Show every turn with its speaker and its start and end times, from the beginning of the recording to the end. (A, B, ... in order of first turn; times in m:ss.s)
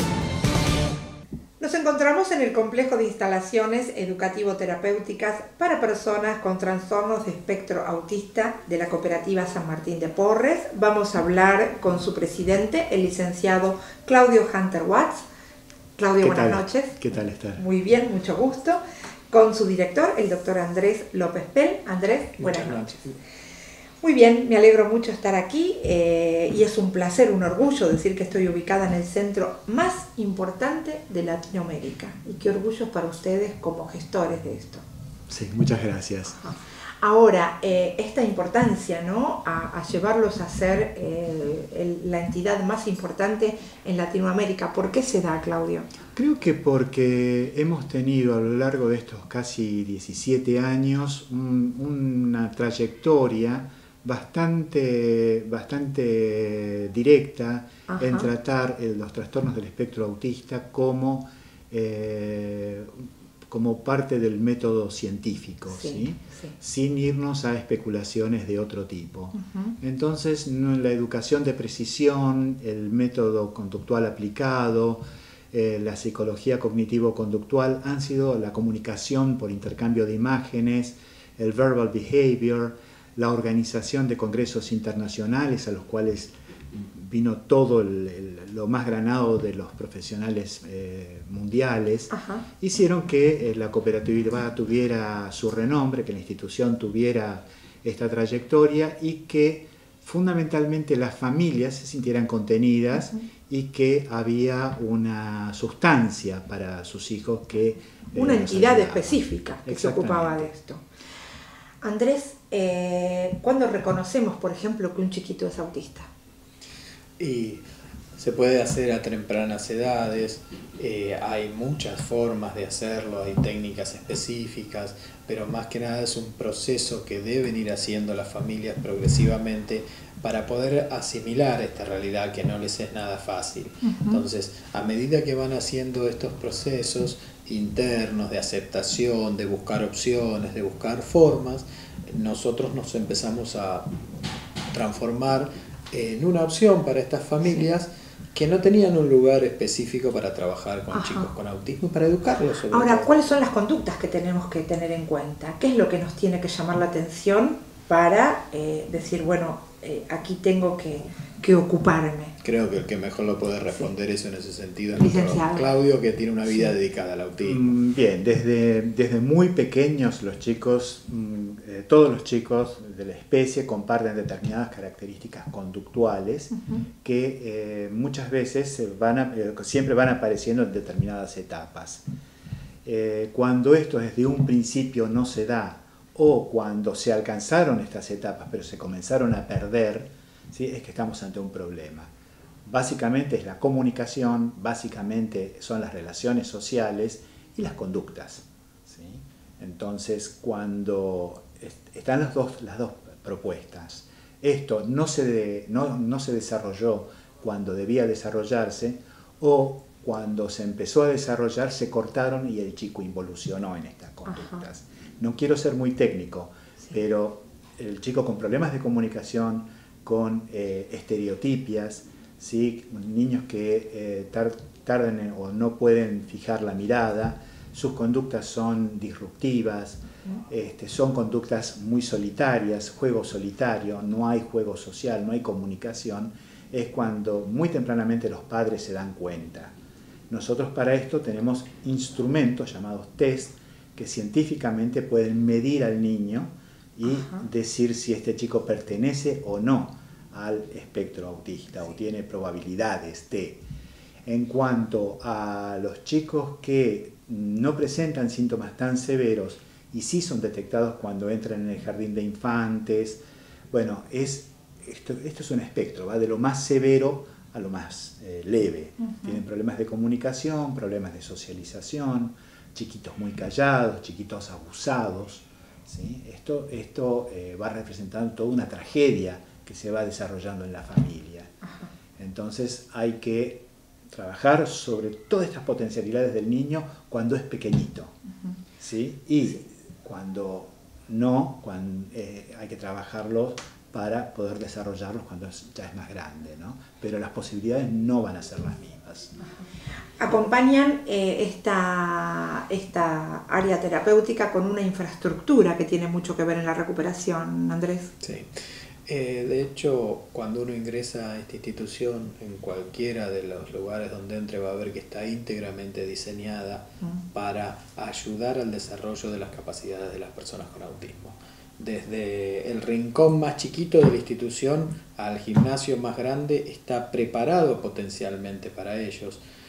0:01.6-0:15.2 A
0:16.0-0:16.9 A
0:16.2-0:17.6 B
0:17.6-0:22.9 A
0:22.4-0:23.1 C
0:24.0-0:34.8 A
0:35.3-0:36.4 B
0:36.3-0:45.9 A
0:46.1-1:50.5 B
0:57.9-0:58.3 A
1:05.7-1:06.5 A
1:09.3-1:09.7 A
1:32.1-1:32.4 A
1:48.1-1:50.8 A
1:51.8-1:56.1 A
1:57.2-1:57.6 C
1:58.2-2:23.9 C
2:13.8-2:14.2 A
2:24.7-2:33.1 C
2:30.9-2:31.3 A
2:32.7-2:42.3 A
2:42.4-2:47.7 C
2:45.0-2:45.7 A
2:47.4-3:02.0 B
2:56.5-2:56.8 A
3:02.8-3:12.1 B
3:12.6-3:59.7 B
3:34.2-3:34.6 A
4:00.3-4:13.6 B
4:07.0-4:07.4 A
4:14.2-4:41.5 B
4:29.0-4:29.4 A
4:41.6-4:41.9 A
4:42.2-4:48.1 B
4:48.8-4:59.3 B
5:00.2-5:08.1 A
5:08.2-5:08.5 C
5:09.1-5:29.4 C